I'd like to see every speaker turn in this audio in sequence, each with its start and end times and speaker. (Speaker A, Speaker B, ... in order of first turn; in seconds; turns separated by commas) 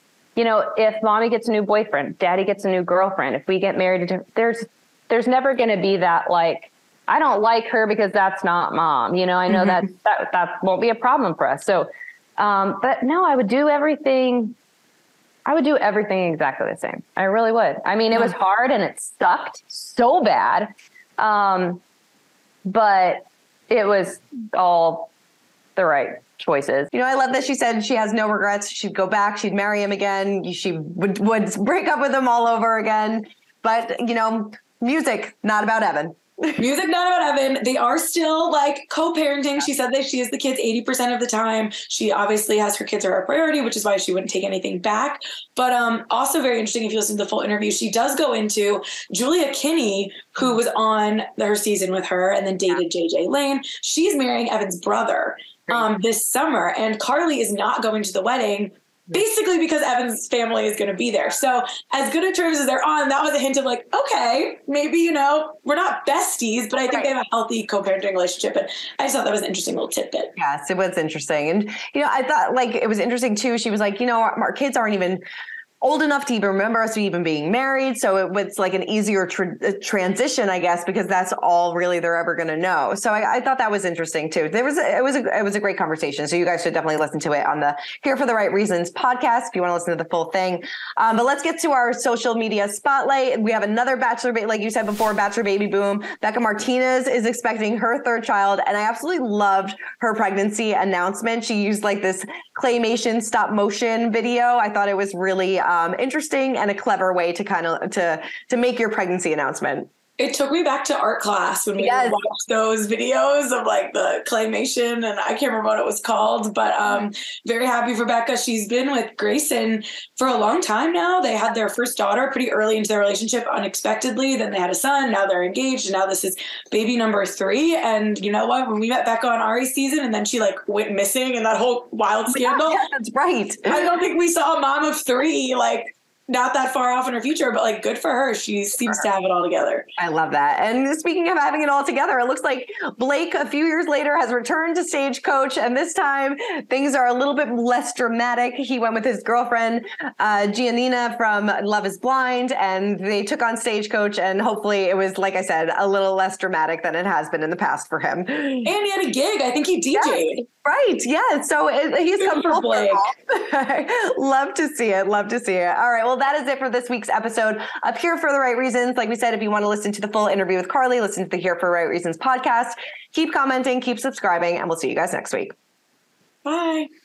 Speaker A: 0.3-14.6, Speaker A: 15.4-21.8, Speaker A: 22.6-25.1, Speaker A: 25.8-26.9, Speaker B: 26.9-36.6, Speaker C: 36.6-70.3, Speaker B: 66.8-67.1, Speaker B: 70.4-75.2, Speaker B: 75.8-109.9, Speaker C: 110.2-132.8, Speaker B: 111.8-112.2, Speaker B: 132.3-133.9, Speaker C: 133.7-139.8, Speaker B: 140.0-158.7, Speaker C: 158.6-160.5, Speaker B: 159.9-175.5, Speaker C: 162.2-163.0, Speaker C: 176.4-176.9